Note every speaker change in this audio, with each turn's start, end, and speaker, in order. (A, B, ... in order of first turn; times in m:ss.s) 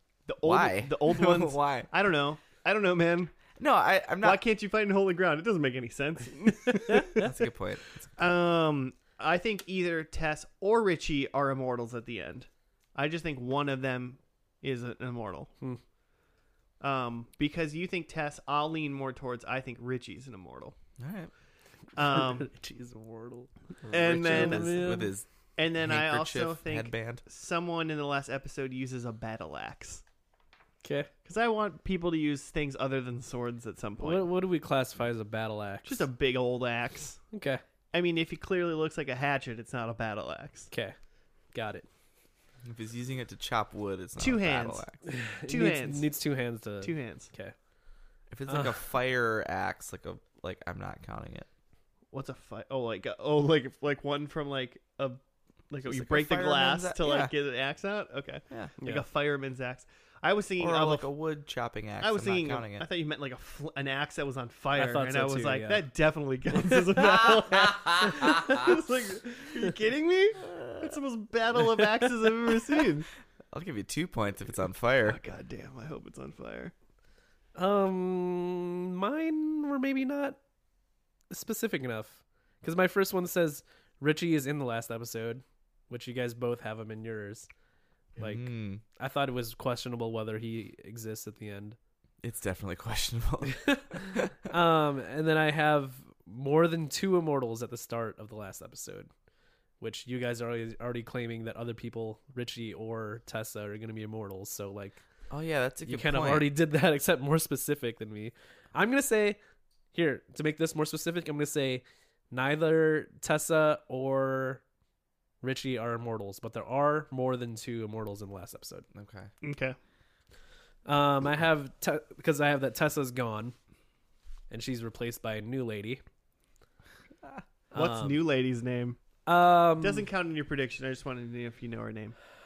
0:00.3-0:03.4 A
0:00.4-0:01.9 B
0:03.6-0:04.4 B
0:04.2-0:07.3 A
0:07.2-0:08.2 B
0:08.2-0:15.5 A
0:16.8-0:20.8 A
0:21.0-0:21.3 B
0:22.0-0:22.5 A
0:22.0-0:25.1 C
0:23.9-0:24.8 A
0:23.9-0:25.3 B
0:25.6-0:30.0 A
0:25.8-0:27.2 B
0:30.8-0:31.1 C
0:31.3-0:34.3 A
0:34.0-0:36.1 C
0:35.9-0:37.2 A
0:37.3-0:37.6 C
0:37.9-0:40.7 A
0:40.7-0:41.0 C
0:41.5-0:41.9 C
0:42.6-0:45.0 B
0:44.2-0:44.9 A
0:45.0-0:47.6 C
0:45.5-0:46.1 A
0:46.8-0:47.3 A
0:48.3-0:51.5 B
0:48.5-0:48.8 C
0:52.1-1:01.1 A
0:55.9-0:57.3 B
1:00.6-1:02.9 B
1:02.0-1:13.1 A
1:04.8-1:05.8 C
1:07.8-1:08.6 B
1:10.5-1:10.9 B
1:13.5-1:15.2 B
1:15.0-1:16.7 A
1:17.6-1:20.4 C
1:21.3-1:27.5 C
1:28.2-1:28.8 B
1:28.2-1:31.8 C
1:32.2-1:34.3 B
1:34.5-1:39.1 C
1:39.8-1:45.0 C
1:45.3-1:46.5 B
1:45.9-1:49.4 C
1:49.9-1:54.6 C
1:55.4-1:58.9 C
1:58.9-1:59.3 B
1:59.4-1:59.8 A
2:00.9-2:03.6 C
2:04.5-2:06.0 C
2:07.7-2:08.2 C
2:07.7-2:09.0 A
2:09.3-2:10.0 C
2:09.8-2:12.2 A